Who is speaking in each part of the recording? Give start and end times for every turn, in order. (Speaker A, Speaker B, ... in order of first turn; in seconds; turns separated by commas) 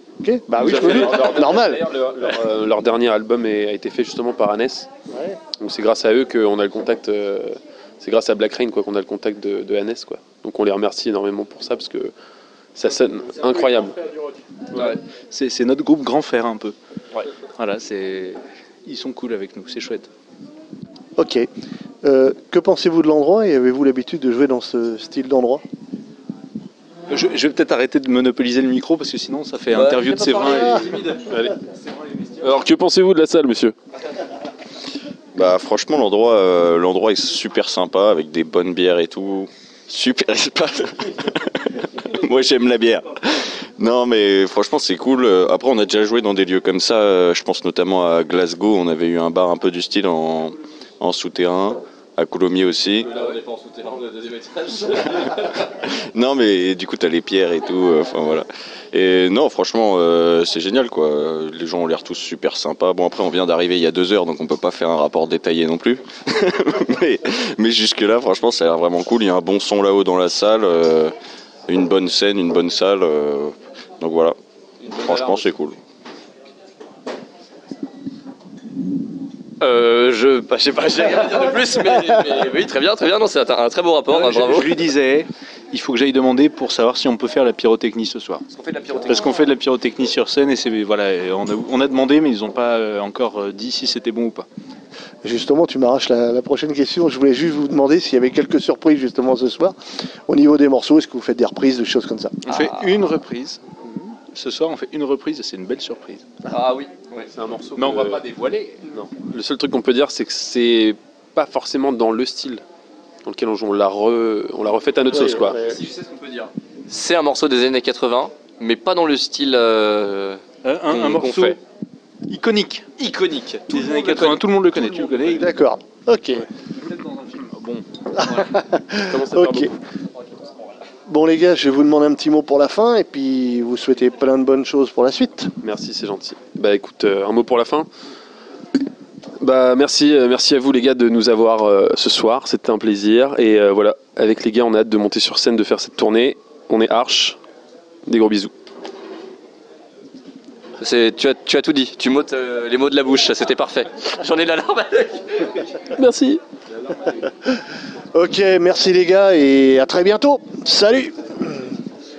Speaker A: 0.2-1.9, Speaker B: 0.6-4.9, Speaker A: 5.1-5.4, Speaker B: 5.5-12.1, Speaker B: 12.8-14.0, Speaker C: 13.6-14.3, Speaker D: 14.7-15.0, Speaker C: 15.3-16.8, Speaker C: 17.6-20.1, Speaker A: 21.2-21.5, Speaker A: 22.0-25.6, Speaker C: 27.1-31.0, Speaker D: 29.7-31.4, Speaker B: 31.3-31.6, Speaker B: 32.4-33.8, Speaker E: 35.4-53.1, Speaker D: 53.0-55.7, Speaker E: 55.9-71.1, Speaker E: 71.7-74.4, Speaker D: 74.8-75.5, Speaker E: 74.9-75.8, Speaker D: 79.6-84.8, Speaker C: 84.1-88.5, Speaker D: 88.5-89.4, Speaker C: 89.1-94.5, Speaker A: 95.2-99.8, Speaker A: 100.3-102.4, Speaker C: 102.5-103.6, Speaker D: 102.5-102.8, Speaker C: 104.3-106.3, Speaker D: 106.5-107.3, Speaker B: 107.3-108.2, Speaker C: 107.8-108.9, Speaker B: 108.9-112.6, Speaker B: 113.2-115.6, Speaker A: 115.1-115.8, Speaker D: 115.1-121.6, Speaker C: 120.6-121.6, Speaker C: 122.3-122.9, Speaker D: 123.0-125.5, Speaker C: 123.7-125.5, Speaker A: 125.3-126.5, Speaker C: 126.8-128.5, Speaker A: 128.2-129.7, Speaker B: 129.1-129.7, Speaker A: 131.1-135.5, Speaker B: 135.6-137.9, Speaker B: 139.4-147.4, Speaker B: 148.1-148.5, Speaker D: 150.8-155.8, Speaker B: 155.9-156.4, Speaker D: 156.9-157.2, Speaker A: 158.1-161.7